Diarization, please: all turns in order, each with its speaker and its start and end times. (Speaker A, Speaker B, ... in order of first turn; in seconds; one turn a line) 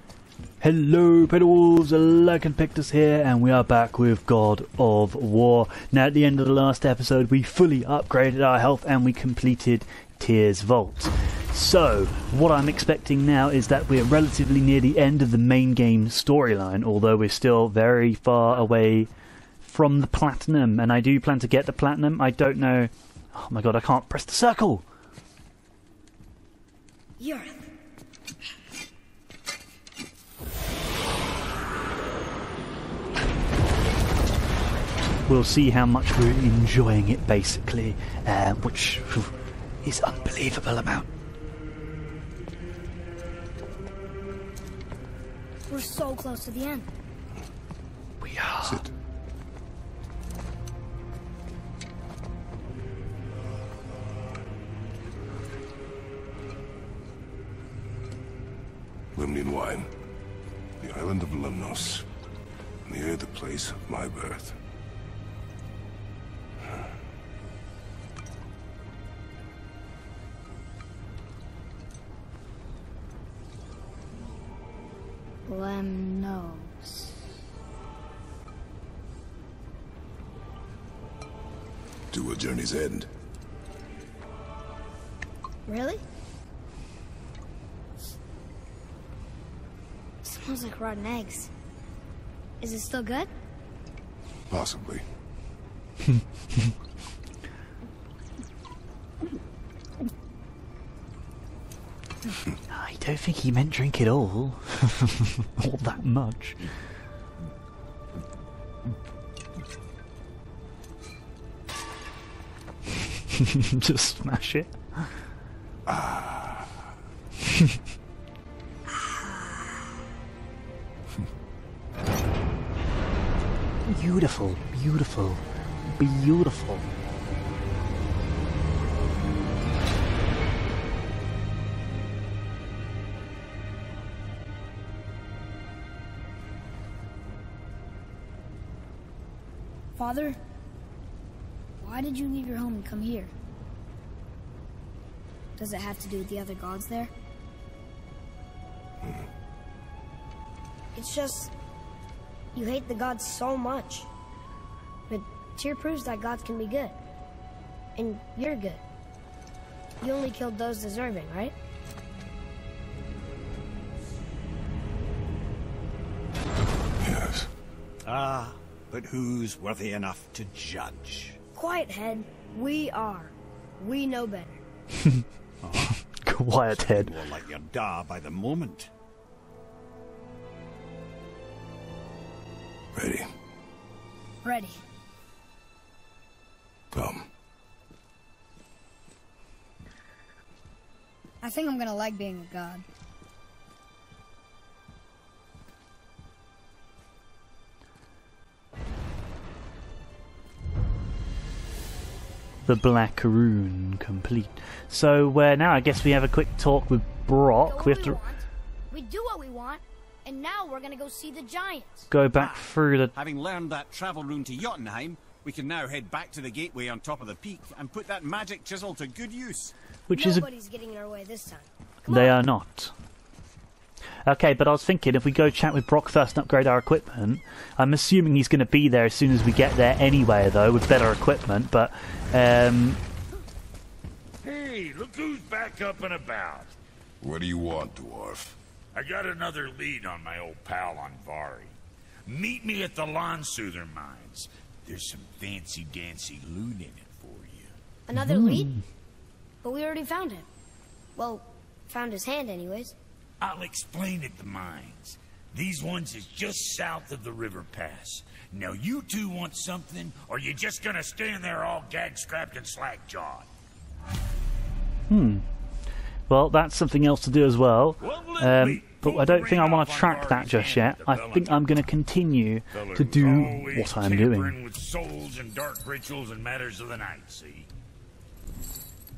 Speaker A: 0.6-19.1
Speaker A: 19.6-24.8
Speaker B: 27.2-27.6
Speaker A: 35.3-39.3
Speaker A: 39.8-41.1
Speaker B: 45.7-46.9
Speaker A: 48.2-48.8
Speaker C: 48.6-48.9
Speaker C: 59.1-59.9
Speaker C: 60.8-62.1
Speaker C: 62.8-64.5
Speaker B: 75.5-77.2
Speaker C: 82.1-83.1
Speaker B: 85.7-86.0
Speaker B: 90.2-91.5
Speaker B: 92.6-93.3
Speaker C: 94.5-95.0
Speaker A: 96.0-96.7
Speaker A: 102.7-106.6
Speaker A: 113.3-115.1
Speaker C: 115.8-116.8
Speaker B: 119.0-119.6
Speaker A: 123.9-126.8
Speaker B: 140.0-140.4
Speaker B: 141.8-143.3
Speaker B: 145.6-147.1
Speaker B: 150.9-151.5
Speaker B: 152.5-154.1
Speaker B: 155.1-157.0
Speaker B: 157.9-158.8
Speaker B: 160.0-161.5
Speaker C: 167.0-167.5
Speaker D: 168.0-171.4
Speaker B: 171.5-174.6
Speaker A: 175.0-175.2
Speaker D: 175.6-176.0
Speaker A: 176.2-177.1
Speaker D: 176.7-178.9
Speaker C: 182.9-183.3
Speaker B: 184.4-184.8
Speaker C: 186.9-187.2
Speaker B: 191.4-192.8
Speaker A: 202.7-208.2
Speaker B: 207.7-212.1
Speaker A: 212.1-213.1
Speaker D: 212.3-219.7
Speaker A: 220.1-220.5
Speaker B: 220.1-222.4
Speaker A: 222.1-222.9
Speaker A: 224.2-233.0
Speaker E: 234.4-236.7
Speaker C: 237.2-238.6
Speaker E: 238.9-247.7
Speaker B: 248.1-248.8
Speaker A: 248.2-248.8
Speaker B: 249.6-250.5
Speaker B: 251.2-252.9
Speaker E: 253.4-263.5
Speaker A: 265.1-265.4
Speaker A: 266.3-274.6
Speaker E: 268.0-271.8
Speaker E: 272.7-277.7